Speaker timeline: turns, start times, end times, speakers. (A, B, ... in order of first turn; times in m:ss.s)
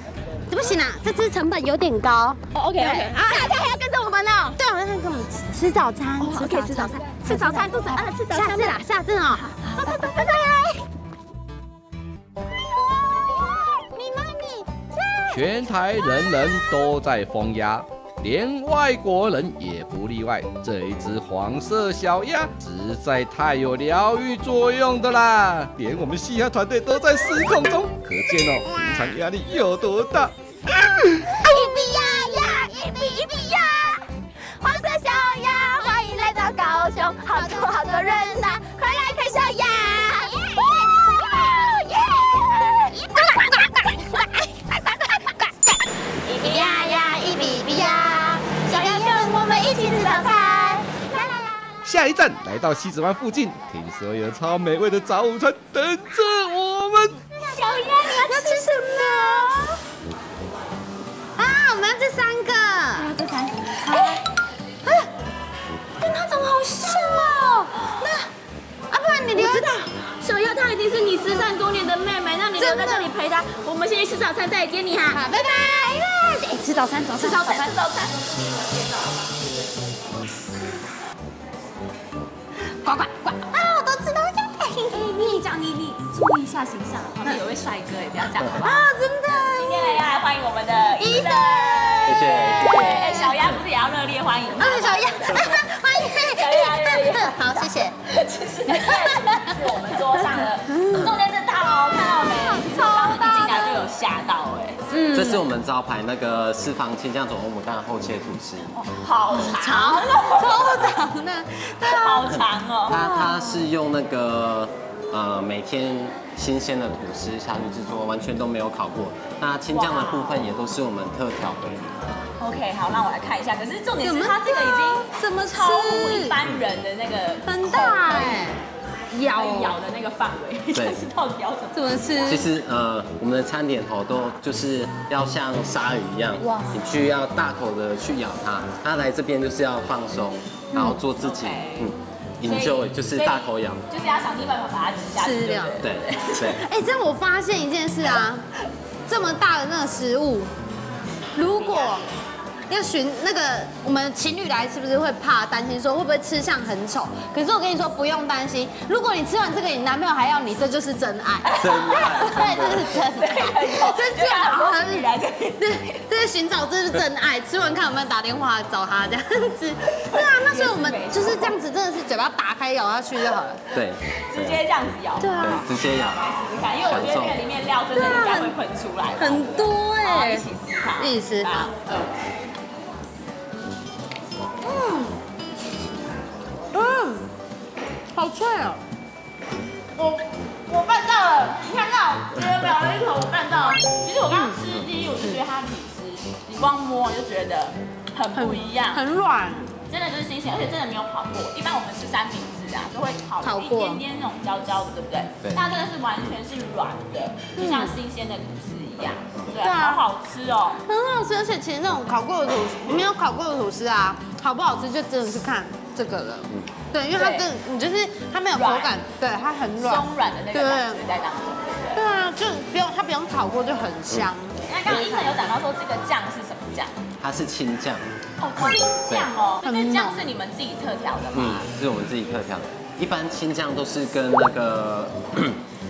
0:00.5-0:03.6 A
0:02.5-0:04.6 B
0:04.6-0:10.8 A
0:06.2-0:08.8 B
0:09.4-0:10.6 B
0:12.7-0:16.6 A
0:15.3-0:31.3 C
0:28.8-0:29.1 A
0:31.4-0:34.1 B
0:31.4-0:32.7 A
0:34.6-0:44.2 B
0:35.8-0:36.2 A
0:37.3-0:38.6 A
0:40.2-0:41.4 A
0:42.9-0:44.3 A
0:46.2-0:50.9 B
0:46.4-0:51.5 A
0:51.8-0:57.2 C
0:57.4-0:59.7 A
0:57.4-0:59.4 B
1:01.4-1:03.1 A
1:03.0-1:04.2 B
1:03.8-1:04.2 A
1:06.0-1:07.5 B
1:06.8-1:08.2 A
1:08.9-1:09.8 A
1:09.4-1:15.3 B
1:12.6-1:13.1 A
1:15.1-1:17.7 A
1:17.2-1:18.4 B
1:22.8-1:25.2 A
1:24.9-1:28.8 B
1:28.6-1:30.0 A
1:29.5-1:35.6 B
1:31.0-1:33.3 A
1:32.0-1:33.6 D
1:34.6-1:37.9 A
1:36.2-1:44.8 B
1:38.7-1:39.5 A
1:40.7-1:41.0 A
1:40.9-1:41.2 D
1:42.2-1:43.9 A
1:44.9-1:45.4 A
1:45.1-1:48.7 D
1:48.7-1:50.8 B
1:49.3-1:52.4 A
1:51.8-1:53.0 B
1:52.3-2:01.9 D
1:52.9-1:53.6 A
1:59.7-2:00.4 B
2:02.4-2:08.4 B
2:04.0-2:06.4 A
2:07.4-2:08.6 A
2:09.1-2:12.4 B
2:09.2-2:09.8 A
2:10.7-2:11.0 D
2:11.7-2:12.4 A
2:12.2-2:23.8 D
2:16.4-2:16.8 A
2:20.7-2:21.0 A
2:21.1-2:26.6 B
2:25.2-2:25.8 A
2:25.8-2:26.6 D
2:26.6-2:28.4 A
2:29.1-2:30.5 A
2:31.4-2:32.0 A
2:31.6-2:32.0 B
2:32.7-2:53.6 A
2:41.4-2:46.0 B
2:41.6-2:42.9 D
2:49.9-2:51.5 B
2:53.7-2:54.6 D
2:54.2-3:01.8 B
2:55.2-2:55.7 A
2:55.4-2:56.2 D
2:56.8-2:57.4 D
2:57.9-2:58.6 A
2:59.2-3:00.4 A
3:01.0-3:02.1 A
3:04.6-3:05.1 A
3:06.7-3:07.3 A
3:08.1-3:08.8 A
3:10.0-3:19.0 B
3:14.3-3:14.6 A
3:18.3-3:19.8 A
3:19.9-3:30.8 B
3:23.4-3:24.0 A
3:27.6-3:28.0 A
3:29.6-3:30.0 A
3:30.9-3:41.0 A
3:37.1-3:37.5 B
3:38.6-3:38.9 B
3:39.8-3:42.0 B
3:41.9-3:45.4 A
3:44.6-3:47.0 B
3:47.2-3:48.0 D
3:48.4-3:51.7 B
3:48.6-3:49.3 D
3:49.6-3:50.3 A
3:51.3-3:55.6 D